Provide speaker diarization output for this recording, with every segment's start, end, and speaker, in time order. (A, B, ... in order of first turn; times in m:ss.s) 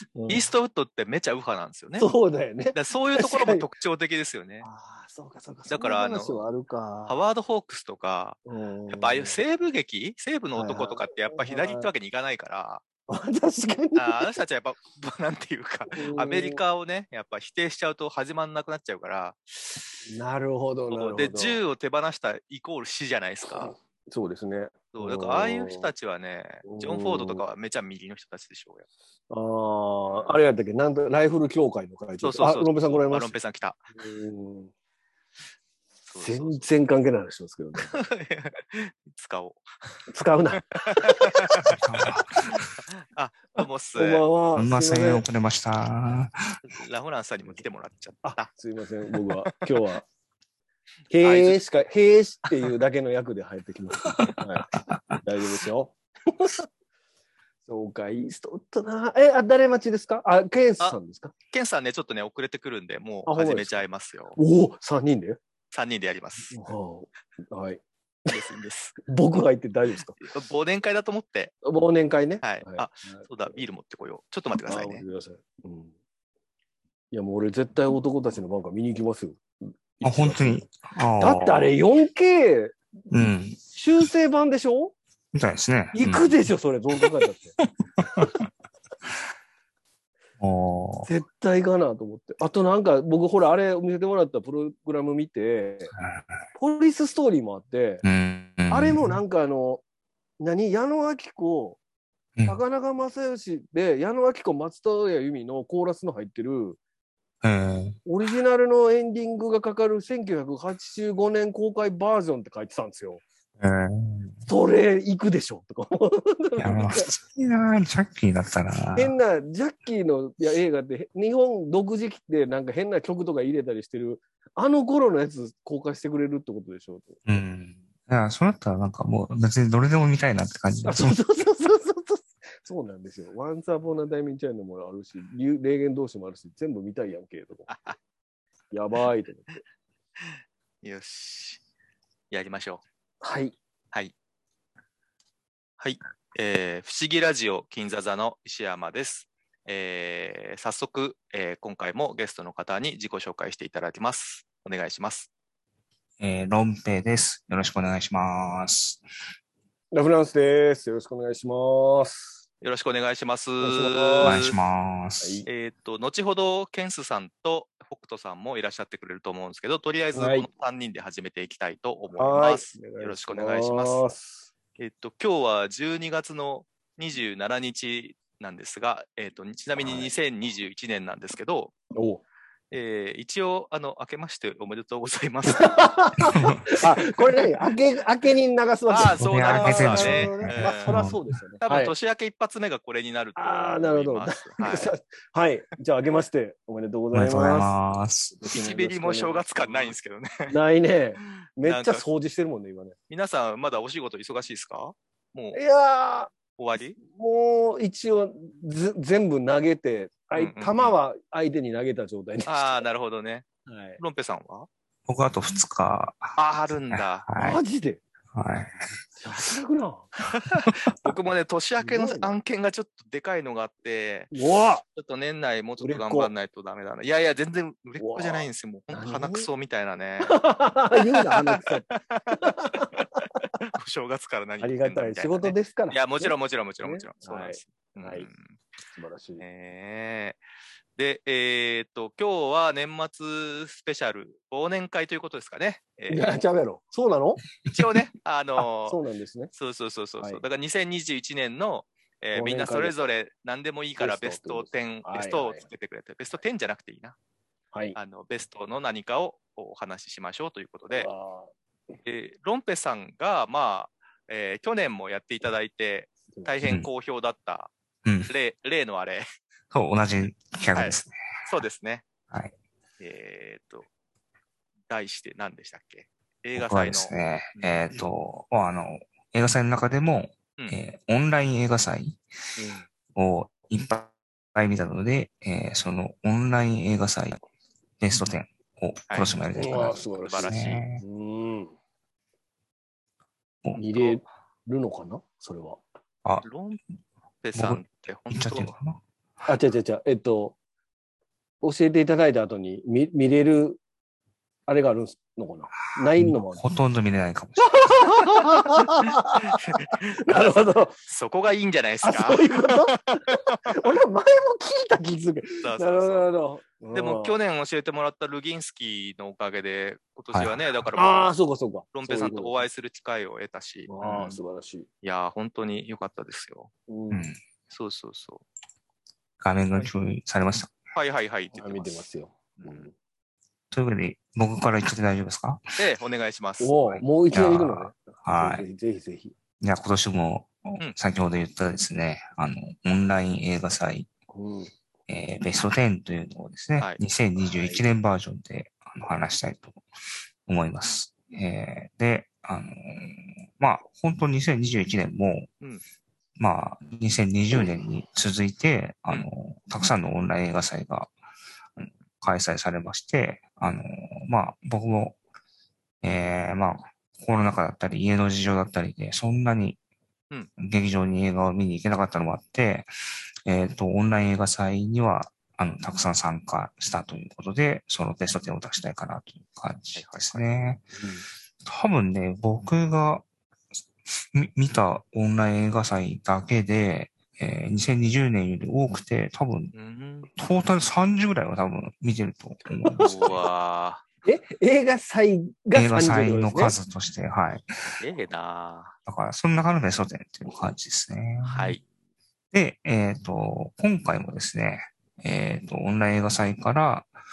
0:00.2-0:00.5 A
0:00.3-0:02.1 B
0:02.0-0:03.6 A
0:02.7-0:04.6 B
0:04.6-0:07.2 A
0:05.7-0:06.4 B
0:07.1-0:08.4 B
0:08.4-0:09.4 A
0:08.9-0:12.8 B
0:10.6-0:11.9 A
0:13.1-0:14.2 A
0:13.9-0:19.9 B
0:15.9-0:16.6 A
0:20.0-0:21.6 A
0:20.9-0:23.7 B
0:23.6-0:25.9 A
0:24.9-0:28.8 B
0:26.6-0:27.4 A
0:29.3-0:33.3 A
0:30.1-0:30.4 B
0:32.2-0:33.8 B
0:33.9-0:34.7 A
0:36.1-0:36.7 B
0:36.1-0:38.0 A
0:37.8-0:39.7 B
0:40.1-0:41.5 A
0:40.7-0:41.8 B
0:41.7-0:42.6 C
0:43.1-0:44.2 B
0:43.6-0:45.2 A
0:44.6-0:46.6 C
0:46.6-0:48.5 B
0:48.2-0:50.1 A
0:51.1-0:56.6 A
0:51.2-0:51.6 B
0:57.6-1:01.3 A
1:01.5-1:04.4 B
1:03.3-1:03.8 A
1:04.4-1:05.4 A
1:05.7-1:06.5 B
1:06.5-1:07.8 A
1:08.3-1:09.0 B
1:09.0-1:10.2 A
1:10.2-1:11.5 B
1:11.6-1:13.3 A
1:12.4-1:15.0 B
1:14.6-1:15.9 A
1:17.1-1:19.4 A
1:20.0-1:20.7 A
1:20.0-1:21.7 C
1:21.2-1:22.8 A
1:23.1-1:23.6 C
1:23.7-1:24.9 A
1:25.3-1:26.4 C
1:25.9-1:27.6 A
1:28.0-1:28.3 C
1:30.4-1:31.1 C
1:31.1-1:35.9 A
1:36.0-1:36.2 C
1:36.6-1:38.0 A
1:38.0-1:39.2 C
1:38.7-1:39.8 A
1:40.4-1:41.8 A
1:42.4-1:46.8 A
1:47.4-1:48.0 C
1:48.1-1:53.2 A
1:53.6-1:54.4 C
1:54.5-1:57.1 A
1:56.6-1:59.1 C
1:58.9-2:07.2 A
2:07.2-2:11.2 C
2:10.8-2:17.7 A
2:17.7-2:18.0 B
2:18.7-2:19.6 A
2:20.2-2:21.6 B
2:22.3-2:22.8 B
2:23.2-2:23.6 A
2:25.8-2:35.3 B
2:36.2-2:39.0 C
2:39.9-2:42.4 A
2:42.6-2:44.6 B
2:43.6-2:44.4 A
2:44.2-2:45.4 C
2:45.2-2:45.5 A
2:45.5-2:54.0 B
2:50.1-2:50.5 A
2:52.2-2:54.4 A
2:54.8-3:01.7 B
2:59.8-3:00.1 A
3:01.9-3:02.2 A
3:02.7-3:05.8 B
3:05.5-3:11.9 A
3:06.3-3:06.6 C
3:08.9-3:11.0 B
3:09.1-3:11.4 C
3:11.6-3:14.9 B
3:13.4-3:17.8 A
3:17.1-3:18.4 C
3:18.4-3:19.9 A
3:18.5-3:20.5 B
3:20.5-3:22.9 A
3:21.6-3:22.0 B
3:23.1-3:25.6 B
3:25.5-3:26.3 A
3:26.6-3:27.0 B
3:27.0-3:32.8 A
3:30.4-3:31.0 B
3:32.5-3:33.5 B
3:33.6-3:34.0 A
3:34.0-3:34.7 B
3:35.1-3:36.4 C
3:36.4-3:37.3 B
3:36.9-3:37.6 C
3:37.4-3:38.0 A
3:38.3-3:38.8 C
3:39.2-3:40.1 A
3:40.3-3:44.3 B
3:41.8-3:42.3 A
3:44.3-3:44.8 A
3:44.9-3:50.4 B
3:45.8-3:46.3 A
3:48.0-3:49.5 A
3:50.3-3:53.3 A
3:50.9-3:53.1 B
3:53.6-3:58.5 B
3:54.6-3:58.3 A
3:58.9-3:59.4 A
3:59.4-4:00.4 B
4:01.0-4:06.3 B
4:06.1-4:07.4 A
4:07.7-4:09.0 B
4:08.8-4:09.5 A
4:09.5-4:17.2 B
4:12.4-4:12.9 A
4:14.0-4:15.6 A
4:17.9-4:21.1 B
4:20.9-4:21.5 A
4:22.0-4:27.7 B
4:26.6-4:26.9 C
4:28.0-4:28.3 C
4:28.3-4:29.2 B
4:29.7-4:31.1 C
4:30.7-4:32.0 B
4:33.0-4:33.9 B
4:34.9-4:37.9 B
4:36.6-4:42.2 C
4:42.6-4:42.9 A
4:43.1-4:47.4 C
4:48.0-4:51.0 C
4:49.1-4:49.4 B
4:49.5-4:51.8 A
4:50.2-4:50.8 B
4:53.8-4:55.8 A
4:56.4-4:56.8 B
4:57.4-4:58.7 B
4:57.5-4:59.0 C
4:59.5-5:00.6 A
5:01.6-5:03.8 A
5:04.7-5:06.6 A
5:06.2-5:08.2 C
5:07.7-5:11.0 A
5:09.5-5:13.8 B
5:12.0-5:17.4 A
5:15.6-5:16.3 B
5:16.9-5:21.3 B
5:20.3-5:20.7 C
5:20.9-5:22.6 A
5:21.9-5:24.4 B
5:23.9-5:24.9 A
5:25.0-5:26.7 B
5:26.9-5:27.2 A
5:27.1-5:27.4 C
5:27.7-5:28.4 B
5:29.4-5:30.7 C
5:30.9-5:32.0 B
5:31.5-5:32.9 A
5:32.6-5:32.9 B
5:33.7-5:35.6 C
5:35.8-5:37.0 B
5:36.6-5:39.3 A
5:37.3-5:38.6 C
5:39.6-5:44.1 C
5:44.3-5:44.7 A
5:45.1-5:49.8 C
5:47.5-5:47.8 A
5:50.5-5:55.5 C
5:56.4-6:01.1 C
6:01.8-6:05.2 C
6:06.0-6:09.8 C
6:10.6-6:12.9 C
6:13.4-6:20.8 C
6:20.0-6:20.5 B
6:21.0-6:21.2 A
6:21.6-6:23.2 C
6:24.1-6:29.7 C
6:29.7-6:30.3 B
6:30.4-6:33.4 C
6:32.8-6:33.1 A
6:33.0-6:34.0 B
6:34.2-6:36.8 A
6:35.7-6:38.0 C
6:38.0-6:38.9 B
6:39.1-6:41.8 C
6:41.4-6:41.8 B
6:42.5-6:47.1 C